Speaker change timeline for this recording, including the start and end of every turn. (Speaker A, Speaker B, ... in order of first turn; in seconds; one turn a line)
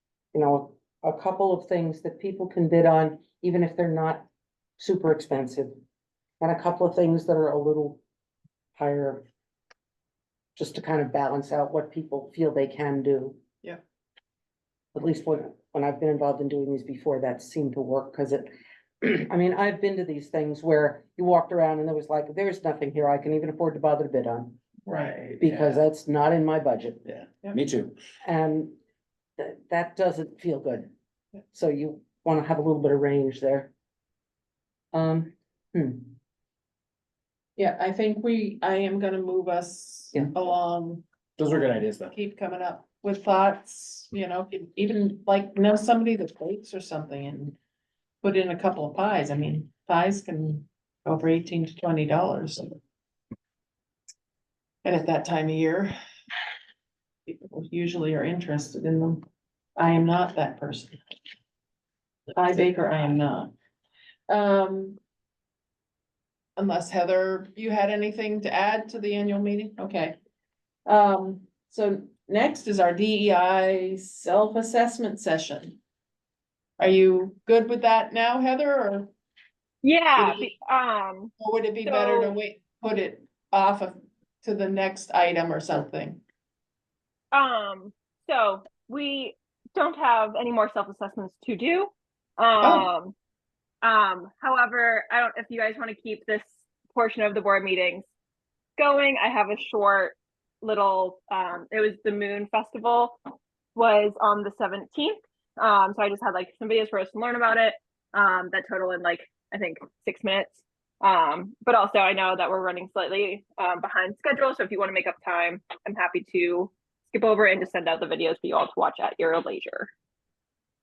Speaker A: 0.3-4.3
Speaker A: 4.8-5.7
Speaker A: 6.4-8.0
Speaker A: 8.8-9.2
Speaker A: 10.6-13.4
Speaker A: 14.9-18.5
Speaker A: 19.0-24.6
Speaker B: 24.9-25.8
Speaker A: 25.4-27.0
Speaker B: 27.0-27.9
Speaker A: 28.2-28.7
Speaker A: 29.4-30.9
Speaker A: 31.5-33.7
Speaker A: 34.9-36.1
Speaker C: 37.6-41.0
Speaker B: 41.4-42.1
Speaker C: 42.1-47.5
Speaker C: 48.2-52.8
Speaker C: 54.8-55.9
Speaker C: 57.3-59.2
Speaker C: 59.8-61.0
Speaker C: 62.4-63.5
Speaker C: 64.3-65.0
Speaker C: 66.6-70.2
Speaker C: 70.8-75.8
Speaker C: 76.8-79.1
Speaker D: 79.8-81.3
Speaker C: 80.2-80.5
Speaker C: 81.4-86.2
Speaker D: 81.8-82.3
Speaker D: 87.3-93.1
Speaker C: 92.6-92.9
Speaker D: 93.8-98.1
Speaker D: 98.8-103.2
Speaker D: 103.7-119.9